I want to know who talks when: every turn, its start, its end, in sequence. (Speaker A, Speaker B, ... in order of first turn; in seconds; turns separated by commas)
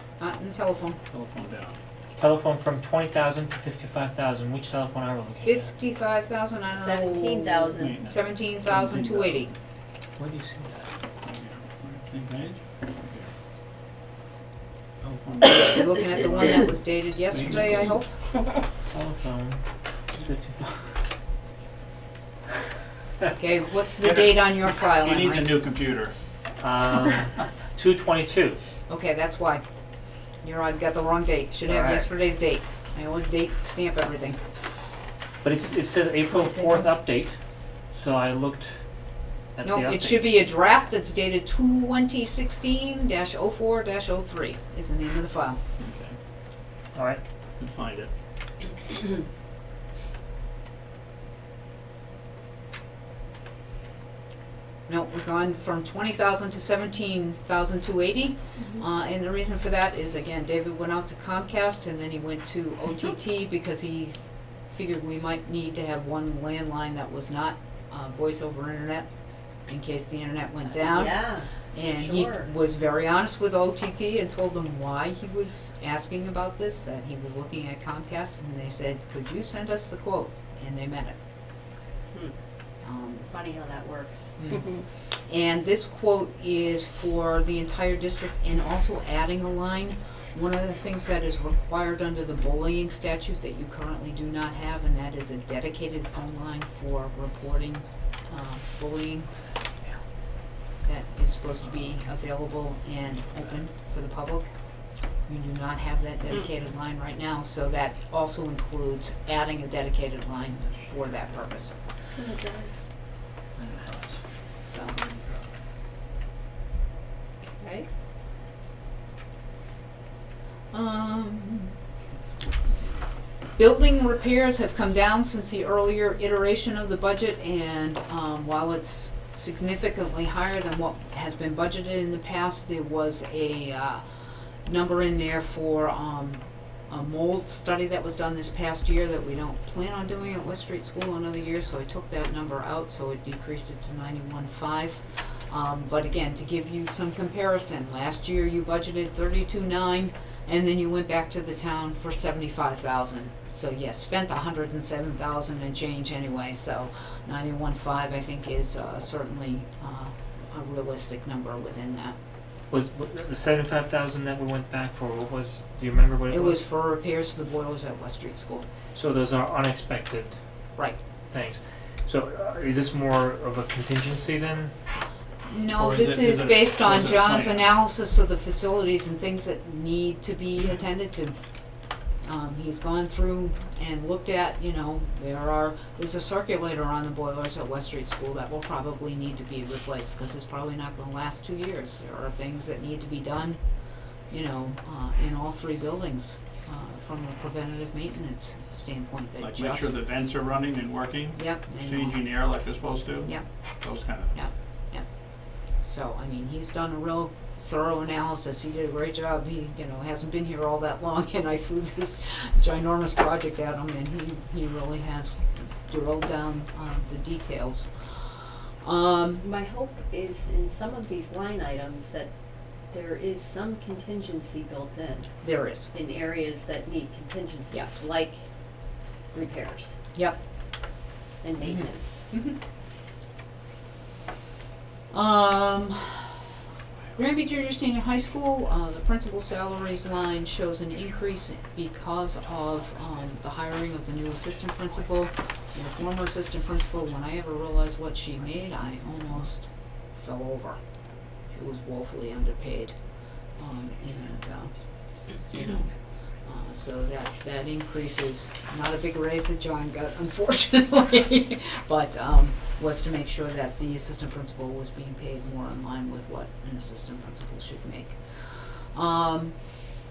Speaker A: 0.2-1.0, Speaker B: 1.1-1.8, Speaker C: 2.2-5.7, Speaker A: 5.4-9.5, Speaker D: 6.7-8.0, Speaker B: 7.8-9.5, Speaker C: 10.2-10.9, Speaker B: 11.2-13.3, Speaker B: 15.0-16.7, Speaker A: 15.5-18.1, Speaker B: 17.3-17.8, Speaker C: 18.9-19.6, Speaker C: 20.1-20.8, Speaker A: 23.3-25.6, Speaker B: 24.0-26.1, Speaker C: 26.6-28.6, Speaker A: 28.9-29.6, Speaker A: 30.4-34.4, Speaker C: 31.7-32.1, Speaker C: 35.4-37.4, Speaker A: 36.3-36.8, Speaker C: 37.9-38.7, Speaker C: 39.5-40.3, Speaker A: 39.6-45.6, Speaker B: 45.8-46.1, Speaker C: 46.9-47.2, Speaker B: 47.6-48.1, Speaker A: 54.9-64.2, Speaker A: 64.7-69.1, Speaker A: 69.7-81.2, Speaker D: 70.7-72.5, Speaker A: 82.8-83.3, Speaker D: 83.3-84.8, Speaker A: 84.4-99.3, Speaker A: 100.8-104.5, Speaker A: 105.2-111.7, Speaker D: 112.2-112.7, Speaker C: 113.5-114.2, Speaker A: 114.6-115.0, Speaker D: 117.4-117.9, Speaker A: 120.7-121.7, Speaker A: 123.5-134.0, Speaker A: 134.6-162.2, Speaker C: 162.7-166.6, Speaker A: 166.3-168.7, Speaker C: 168.9-170.4, Speaker C: 171.3-174.7, Speaker A: 175.5-181.3, Speaker B: 175.7-177.7, Speaker A: 182.2-193.6, Speaker A: 194.3-199.9, Speaker B: 199.4-204.3, Speaker A: 201.3-202.2, Speaker A: 204.3-205.1, Speaker A: 205.7-219.4, Speaker D: 219.4-222.3, Speaker D: 222.9-225.3, Speaker A: 225.4-225.9, Speaker D: 225.9-228.4, Speaker A: 227.7-228.1, Speaker D: 229.3-230.0, Speaker A: 230.1-230.4, Speaker D: 231.4-232.3, Speaker A: 231.6-232.6, Speaker A: 235.1-236.3, Speaker A: 237.2-250.8, Speaker A: 251.5-254.7, Speaker A: 255.4-269.6